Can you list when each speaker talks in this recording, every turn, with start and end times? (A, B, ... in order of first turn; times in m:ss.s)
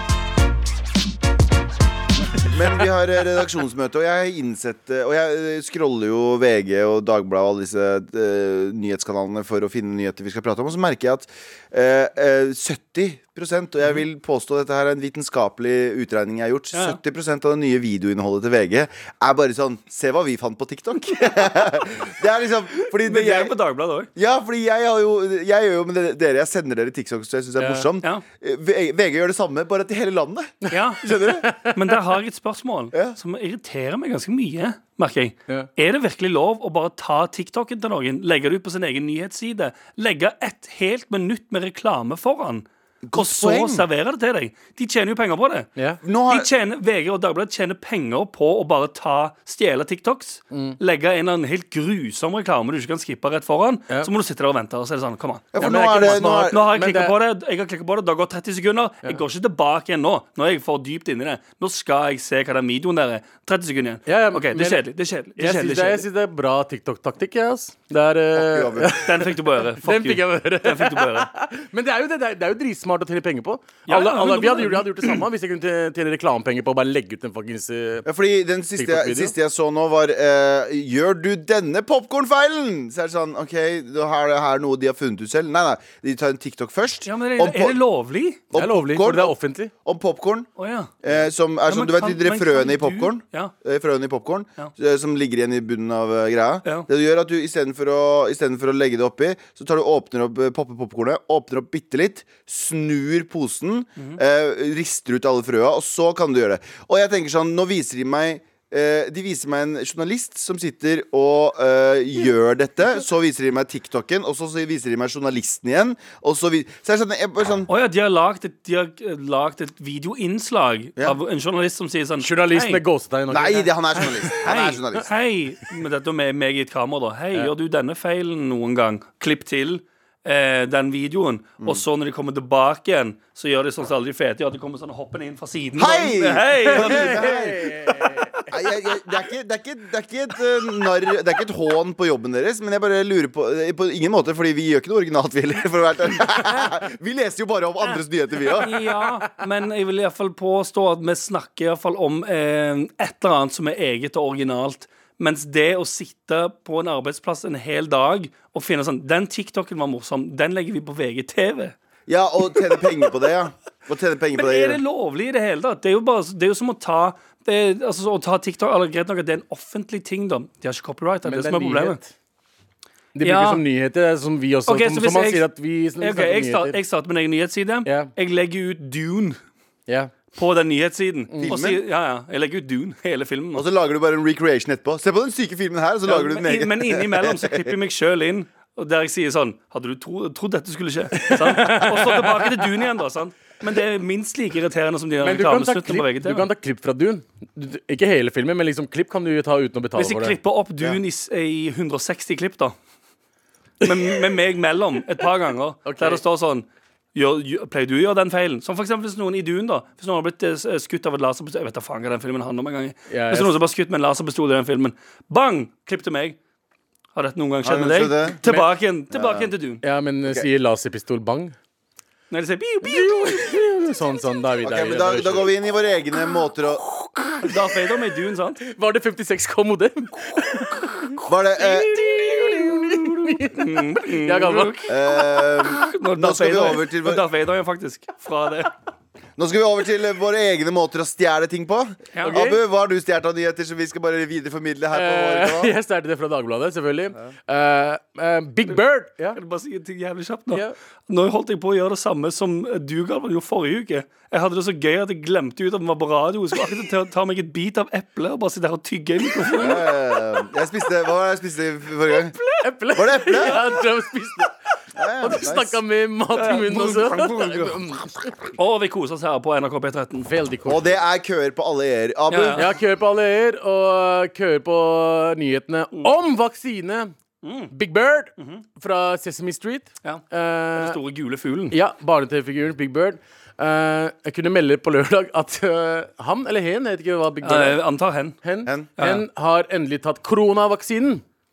0:02.4-0:23.6 A
0:16.7-0:17.0 B
0:21.1-0:21.9 B
0:22.7-0:24.1 B
0:24.2-0:31.5 A
0:27.6-0:27.9 C
0:30.7-0:31.8 C
0:30.7-0:31.1 B
0:31.7-0:45.7 B
0:43.0-0:43.8 A
0:46.0-0:46.5 A
0:46.3-1:06.0 B
0:50.5-0:50.8 C
0:55.5-0:56.6 A
0:55.6-0:57.2 C
1:04.1-1:04.8 C
1:05.4-1:18.1 C
1:08.3-1:09.0 A
1:09.0-1:11.3 B
1:13.9-1:15.2 B
1:18.1-1:27.8 A
1:18.8-1:19.3 C
1:27.0-1:28.4 B
1:28.5-1:30.5 A
1:28.6-1:29.7 C
1:30.6-1:30.9 B
1:31.0-1:57.7 A
1:31.7-1:33.5 B
1:57.7-2:02.8 B
2:02.2-2:04.4 C
2:03.3-2:05.1 A
2:04.0-2:17.2 B
2:15.8-2:18.0 A
2:16.7-2:18.5 C
2:18.5-2:28.7 A
2:28.6-2:41.8 B
2:42.1-2:44.8 A
2:44.3-2:52.0 B
2:51.2-2:52.1 C
2:53.2-2:56.8 C
2:53.2-2:53.6 B
2:54.7-2:55.5 B
2:56.0-2:59.4 B
2:57.8-2:58.1 C
2:59.9-3:00.1 C
3:00.3-3:03.7 B
3:01.3-3:01.6 C
3:01.4-3:01.8 A
3:03.6-3:07.7 A
3:06.1-3:16.5 B
3:11.2-3:12.7 C
3:15.2-3:20.4 C
3:20.0-3:22.8 B
3:23.8-3:36.4 B
3:23.8-3:24.1 C
3:25.8-3:26.2 C
3:33.1-3:33.6 C
3:37.2-3:39.8 B
3:37.6-3:38.4 A
3:39.1-3:39.5 A
3:39.8-3:41.6 C
3:42.3-3:43.5 B
3:42.8-3:45.5 C
3:44.6-3:46.8 A
3:46.8-3:47.7 C
3:47.4-3:48.6 B
3:48.6-3:55.6 C
3:50.3-3:50.8 B
3:51.3-3:52.0 A
3:51.9-3:54.9 B
3:54.9-3:57.2 A
3:55.6-3:58.7 B
3:59.4-4:05.8 A
4:02.2-4:02.6 B
4:04.9-4:09.4 C
4:09.3-4:19.9 B
4:19.6-4:22.4 A
4:22.6-4:24.6 C
4:22.9-4:23.6 A
4:25.0-4:25.8 A
4:25.2-4:28.5 C
4:26.4-4:27.8 B
4:28.6-4:30.3 B
4:30.2-4:31.0 C
4:30.7-4:32.7 A
4:32.3-4:32.6 B
4:32.6-4:37.1 C
4:37.4-4:37.7 B
4:37.7-4:41.0 C
4:38.4-4:38.6 B
4:40.8-4:41.8 B
4:41.7-4:47.8 C
4:47.4-4:48.4 B
4:48.4-4:51.2 C
4:49.0-4:49.2 B